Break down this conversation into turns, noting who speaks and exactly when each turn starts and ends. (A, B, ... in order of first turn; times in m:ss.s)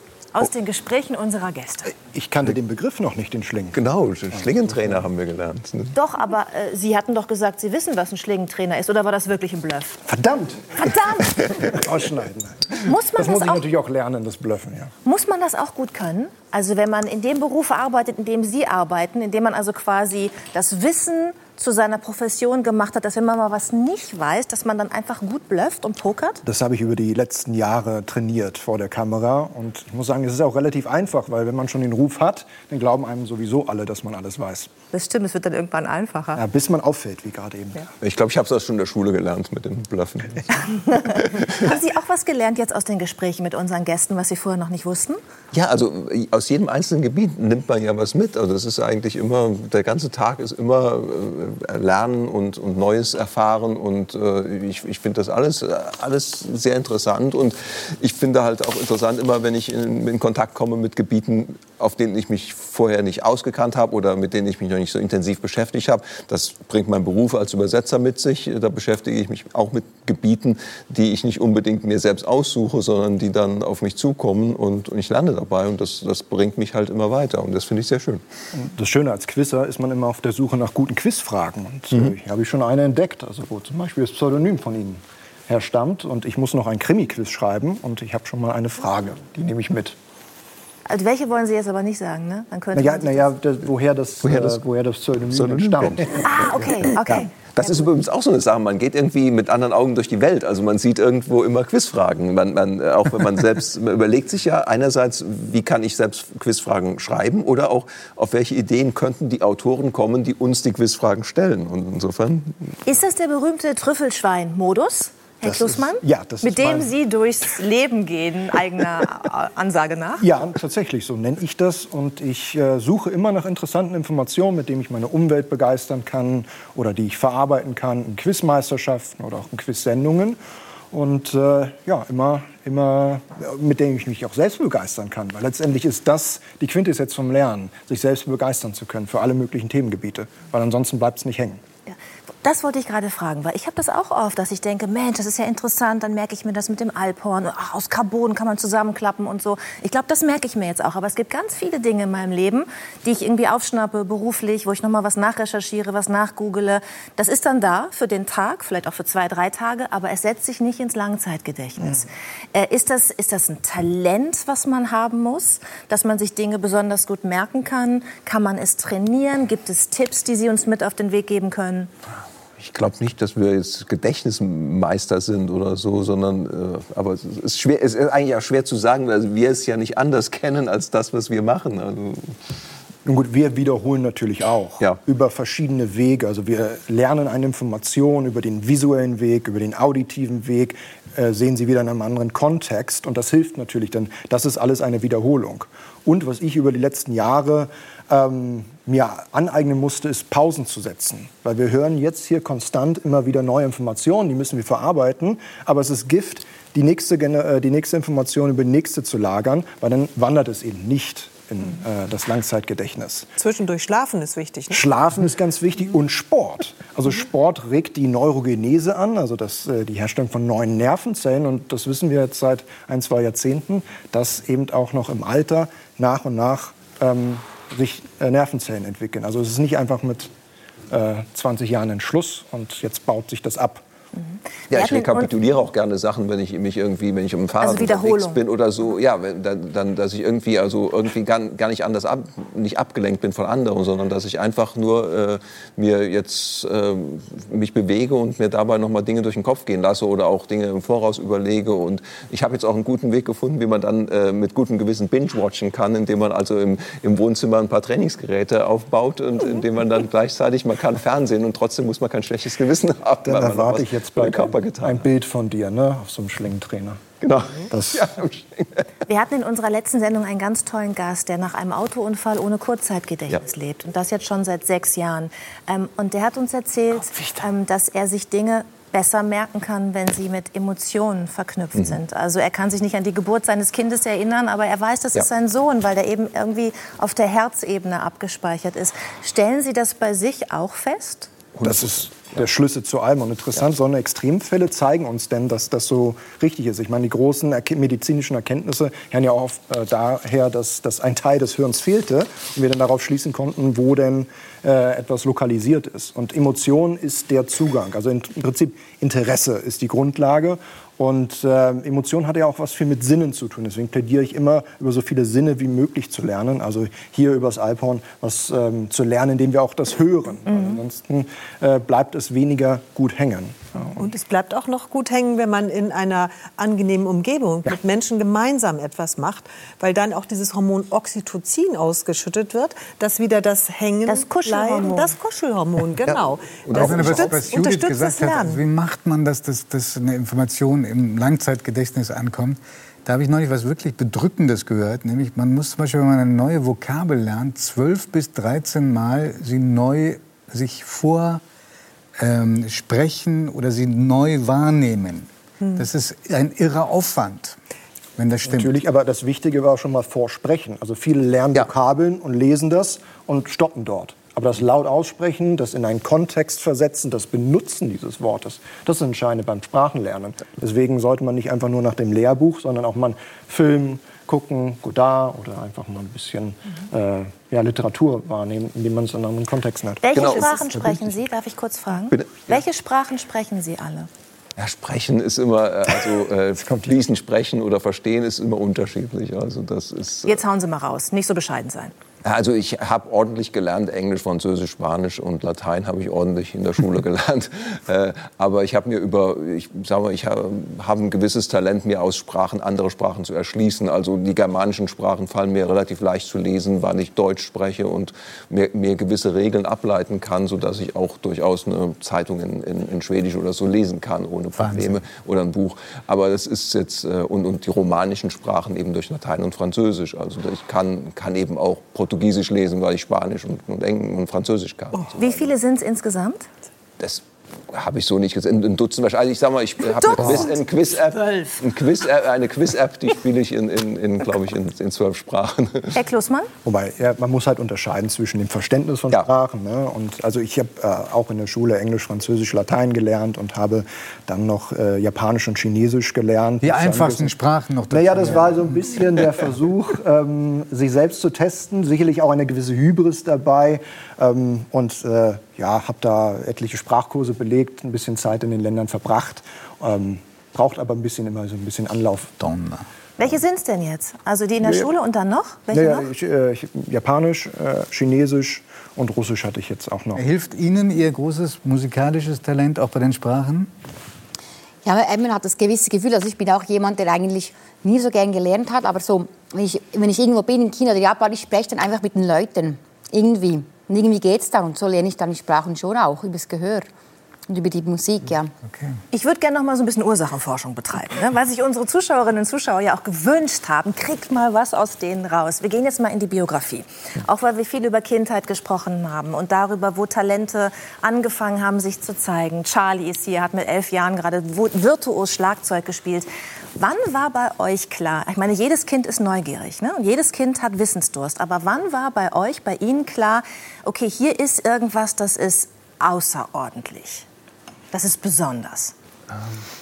0:00.3-0:01.9 A
0:02.0-0:03.8 B
0:03.7-0:05.9 C
0:05.9-0:10.0 A
0:10.1-0:10.6 B
0:10.7-0:11.6 A
0:11.6-0:14.9 B
0:12.8-0:13.6 A
0:15.0-0:26.4 A
0:26.4-0:34.7 B
0:34.9-0:36.4 A
0:36.3-0:37.9 B
0:38.0-0:41.5 C
0:41.5-0:45.2 A
0:45.5-1:18.2 C
1:18.5-1:30.0 B
1:30.9-1:33.3 A
1:32.7-1:37.2 B
1:34.2-1:34.6 C
1:35.3-1:36.2 C
1:36.2-1:37.9 A
1:37.5-1:52.6 C
1:52.8-2:00.2 A
1:55.4-1:56.9 B
2:00.2-2:10.4 B
2:10.9-2:21.6 B
2:21.9-2:51.9 A
2:52.6-3:02.3 C
3:03.0-3:33.3 B
3:33.4-3:34.9 D
3:34.7-3:50.3 B
3:50.9-3:53.8 B
3:54.7-3:55.3 A
3:54.7-4:25.0 C
3:57.6-3:58.4 A
4:23.2-4:27.0 B
4:27.2-4:28.8 C
4:27.7-4:28.1 B
4:29.1-4:51.3 A
4:37.1-4:37.4 C
4:51.6-4:52.2 C
4:51.6-5:24.1 B
5:20.5-5:20.8 A
5:24.0-5:38.6 D
5:34.1-5:35.1 A
5:36.0-5:37.3 C
5:36.8-5:51.4 E
5:52.2-5:57.6 E
5:58.2-5:58.7 E
5:58.5-6:20.6 B
6:20.0-6:24.1 A
6:20.1-6:20.7 C
6:22.1-6:22.5 C
6:24.6-6:30.4 C
6:26.6-6:26.9 B
6:30.2-6:31.9 A
6:32.2-7:05.5 C
6:54.6-6:55.0 E
7:05.2-7:06.5 A
7:07.0-7:16.0 C
7:10.0-7:10.5 A
7:15.9-7:16.5 A
7:16.6-7:27.4 B
7:26.6-7:28.7 E
7:27.9-7:42.3 B
7:42.4-7:42.8 E
7:43.2-7:46.1 A
7:44.6-7:44.9 B
7:45.7-7:50.2 B
7:50.1-7:53.7 E
7:54.8-8:06.9 F
8:07.5-8:08.5 F
8:08.6-8:08.9 E
8:09.1-8:37.2 A
8:37.9-8:38.9 A